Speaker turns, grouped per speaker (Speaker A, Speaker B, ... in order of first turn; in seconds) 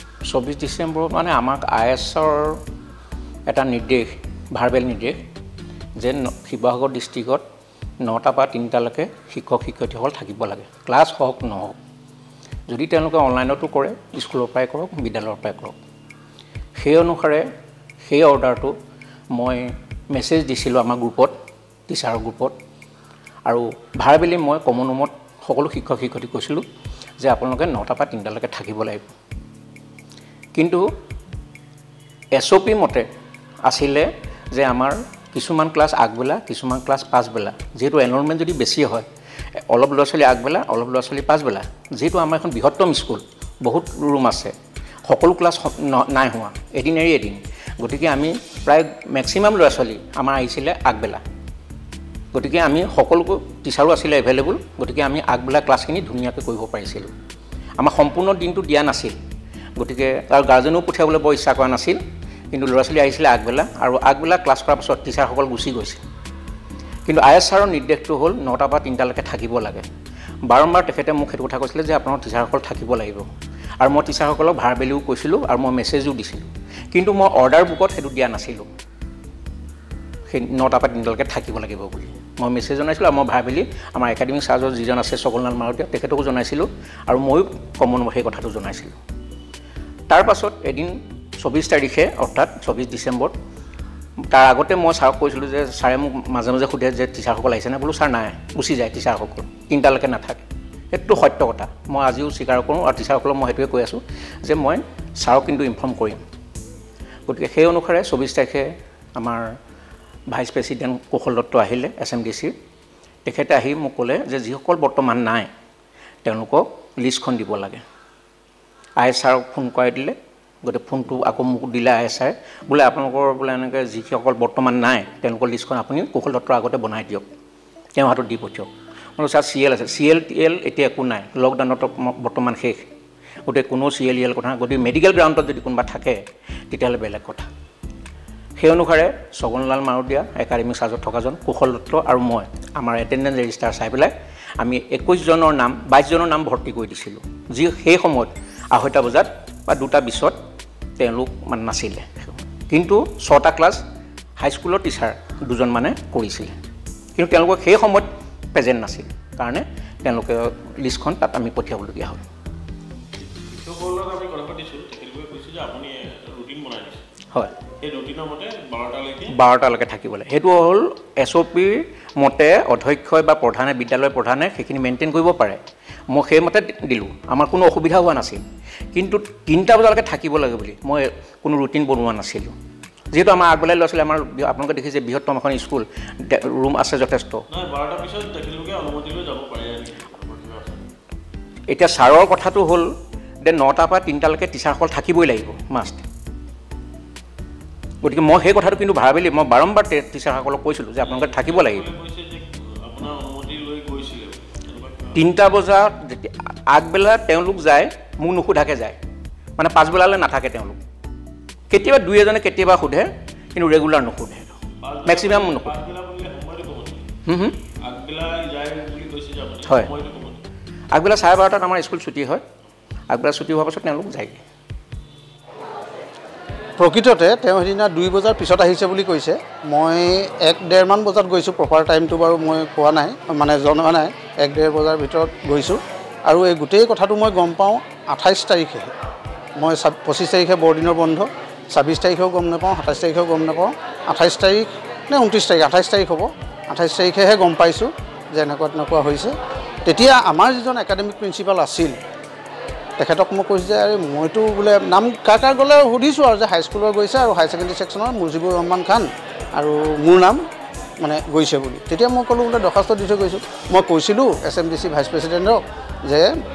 Speaker A: 0.2-2.6, 3.5-5.2, 6.0-7.4, 8.0-11.8, 12.7-15.8, 16.8-17.5, 18.1-18.7, 19.3-21.3, 21.9-22.5, 23.5-26.6, 27.2-29.1, 30.5-30.9, 32.4-33.0, 33.6-39.1, 39.7-44.5, 45.1-51.2, 52.3-57.1, 57.8-59.1, 59.8-62.0, 62.5-66.0, 67.0-69.8, 70.5-73.3, 73.8-78.7, 80.3-89.0, 90.1-93.3, 94.3-106.2, 107.3-109.5, 110.3-112.5, 113.2-115.5, 116.2-117.8, 119.0-127.2, 128.0-132.8, 133.4-137.5, 138.6-150.3, 151.0-153.8, 154.4-156.5, 157.2-162.2, 169.3-178.4, 178.9-182.5, 183.1-187.4, 191.7-192.9, 193.4-196.0, 198.0-201.9, 205.1-209.0, 209.6-210.8, 211.7-215.8, 217.2-217.6, 219.6-219.9, 220.9-222.4, 223.1-224.4
Speaker B: 163.5-167.0, 167.8-169.2, 187.5-190.8, 201.2-205.1, 214.8-217.0, 217.8-220.4
Speaker C: 226.8-238.9, 239.6-249.3, 249.8-251.9, 253.0-260.4, 261.0-266.3